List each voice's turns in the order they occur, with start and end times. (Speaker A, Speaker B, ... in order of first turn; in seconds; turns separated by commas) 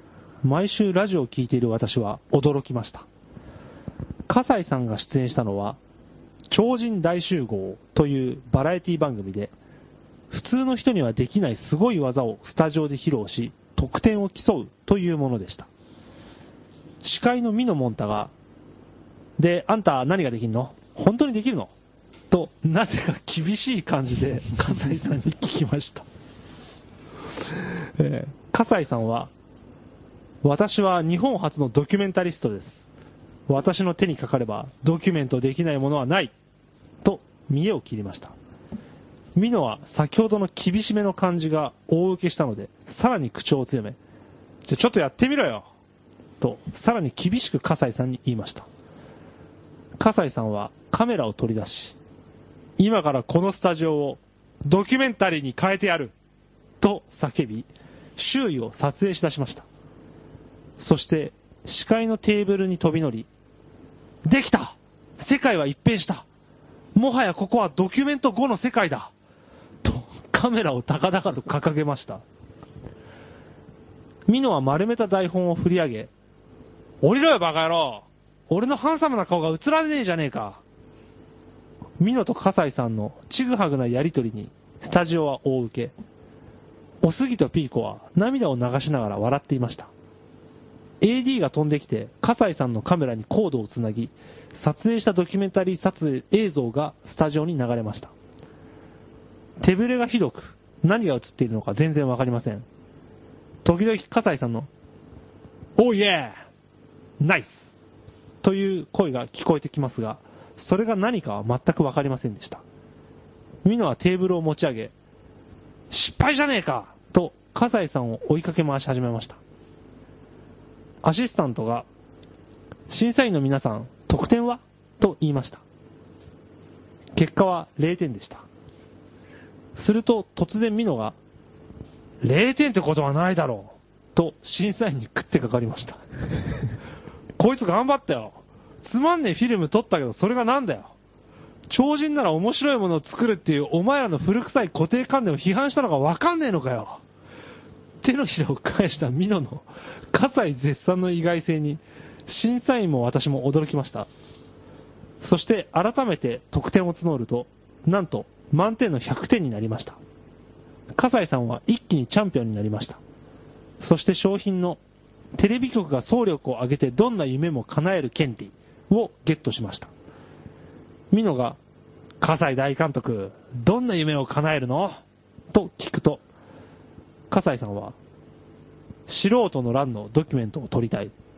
Speaker A: 0.4-3.1, Speaker A: 4.3-5.8, Speaker A: 6.5-9.5, Speaker A: 10.3-15.7, Speaker A: 17.0-18.3, Speaker A: 19.4-21.7, Speaker A: 22.3-26.1, Speaker A: 28.0-29.3, Speaker A: 30.4-32.9, Speaker A: 33.5-36.3, Speaker A: 37.0-38.4, Speaker A: 39.4-44.0, Speaker A: 44.7-45.7, Speaker A: 46.4-48.7, Speaker A: 50.0-52.0, Speaker A: 52.8-56.1, Speaker A: 56.8-59.7, Speaker A: 60.8-63.3, Speaker A: 64.2-66.3, Speaker A: 67.0-69.1, Speaker A: 69.8-72.2, Speaker A: 74.3-76.1, Speaker A: 77.0-80.6, Speaker A: 82.0-85.9, Speaker A: 87.0-89.9, Speaker A: 91.0-98.1, Speaker A: 99.6-102.7, Speaker A: 103.6-104.7, Speaker A: 105.8-106.4, Speaker A: 107.2-107.7, Speaker A: 108.4-112.6, Speaker A: 113.6-114.9, Speaker A: 115.9-119.4, Speaker A: 121.0-121.9, Speaker A: 122.9-125.6, Speaker A: 127.2-128.5, Speaker A: 129.8-131.2, Speaker A: 132.2-136.0, Speaker A: 137.4-140.9, Speaker A: 141.7-147.0, Speaker A: 148.0-154.1, Speaker A: 155.2-160.0, Speaker A: 160.9-163.0, Speaker A: 163.8-164.8, Speaker A: 165.3-169.9, Speaker A: 171.1-171.6, Speaker A: 172.2-176.2, Speaker A: 177.3-178.0, Speaker A: 179.1-181.1